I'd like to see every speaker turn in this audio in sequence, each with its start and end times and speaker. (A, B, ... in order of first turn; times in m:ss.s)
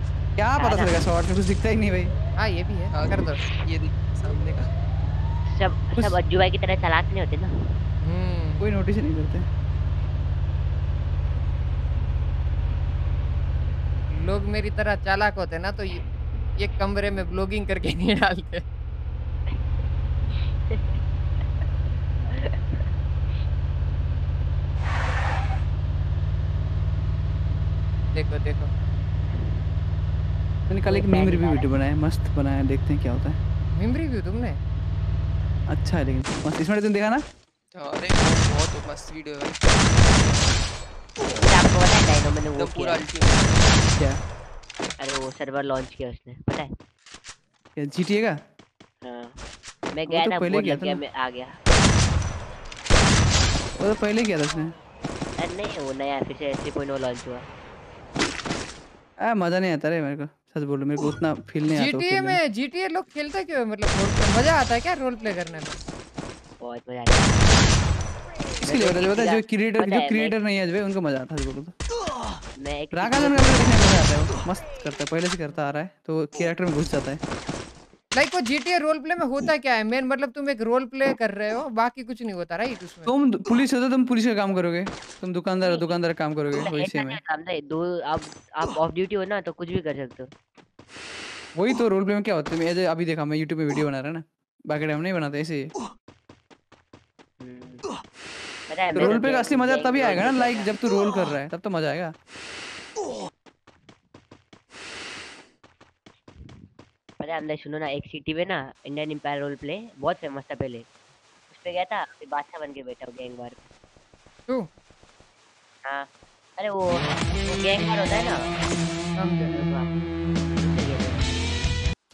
0:00.4-0:02.1 A
0:00.6-0:00.9 B
0:02.4-0:03.4 C
0:02.9-0:04.7 D
0:05.4-0:07.5 B
0:08.0-0:08.6 C
0:08.6-0:09.4 A
0:14.1-0:16.0 C
0:16.6-0:18.6 C
0:22.3-0:22.8 B
0:28.1-0:28.7 C
0:30.7-0:33.4 A
0:30.8-0:31.7 B
0:33.8-0:34.6 C
0:35.7-0:37.2 A
0:37.7-0:40.7 D
0:41.3-0:43.0 B
0:42.5-0:43.8 D
0:43.9-0:44.2 A
0:45.0-0:46.7 B
0:47.8-0:48.4 A
0:49.0-0:49.4 B
0:49.9-0:51.5 B
0:50.1-0:51.0 A
0:53.8-0:54.7 A
0:55.4-0:57.4 B
0:59.2-1:02.4 A
1:01.7-1:05.8 C
1:06.6-1:07.6 B
1:08.6-1:10.4 B
1:08.6-1:11.7 A
1:12.6-1:13.9 B
1:12.9-1:17.2 A
1:18.1-1:23.1 C
1:23.0-1:27.2 A
1:25.6-1:25.9 B
1:26.5-1:30.3 B
1:31.6-1:35.7 A
1:37.4-1:37.8 B
1:38.7-1:40.7 B
1:38.9-1:42.1 A
1:47.2-1:50.8 B
1:51.5-1:53.6 B
1:56.6-1:58.4 B
1:59.2-1:59.5 C
1:59.5-1:59.9 B
2:00.5-2:01.3 B